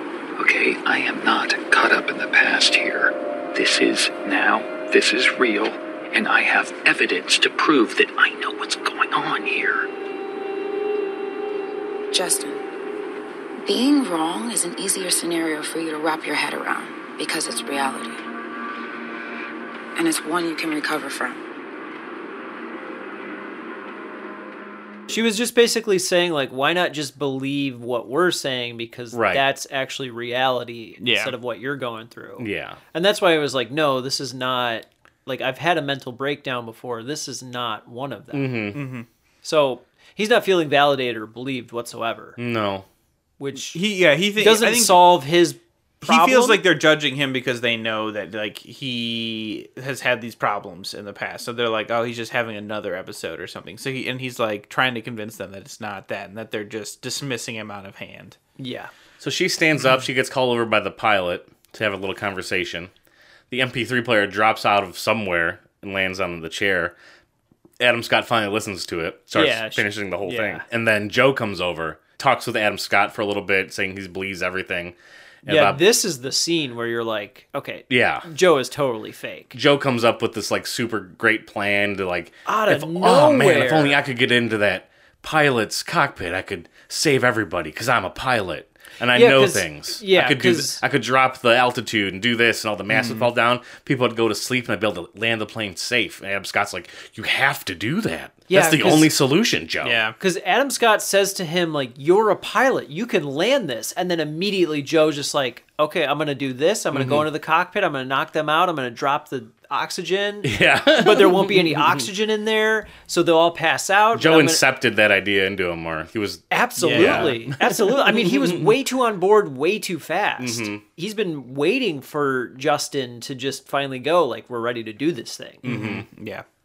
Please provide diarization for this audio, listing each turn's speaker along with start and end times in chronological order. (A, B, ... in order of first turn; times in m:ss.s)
0:00.4-0:09.9 A
0:12.1-0:12.6 B
0:13.6-0:18.2 B
0:20.0-0:21.4 B
0:25.1-0:38.7 C
0:29.1-0:29.4 D
0:31.0-0:31.4 E
0:32.4-0:32.8 D
0:38.3-0:38.8 D
0:38.7-0:39.1 E
0:39.4-0:42.4 C
0:42.4-0:42.9 D
0:43.4-0:43.8 C
0:43.6-0:45.1 E
0:44.4-0:46.6 C
0:46.0-0:58.4 E
0:58.6-0:58.9 C
0:59.2-1:02.9 D
1:03.5-1:07.0 D
1:07.8-1:15.8 D
1:09.3-1:10.6 C
1:15.5-1:19.6 C
1:17.9-1:18.3 D
1:19.5-1:40.0 D
1:22.5-1:24.0 C
1:29.1-1:30.8 C
1:32.9-1:33.3 E
1:38.5-1:39.1 C
1:39.8-1:40.2 E
1:40.2-1:54.6 C
1:46.9-1:47.3 D
1:50.4-1:52.0 D
1:54.1-1:58.7 D
1:56.5-2:05.7 C
1:56.8-1:57.4 E
2:00.4-2:00.8 D
2:05.6-2:06.0 D
2:05.6-2:06.4 E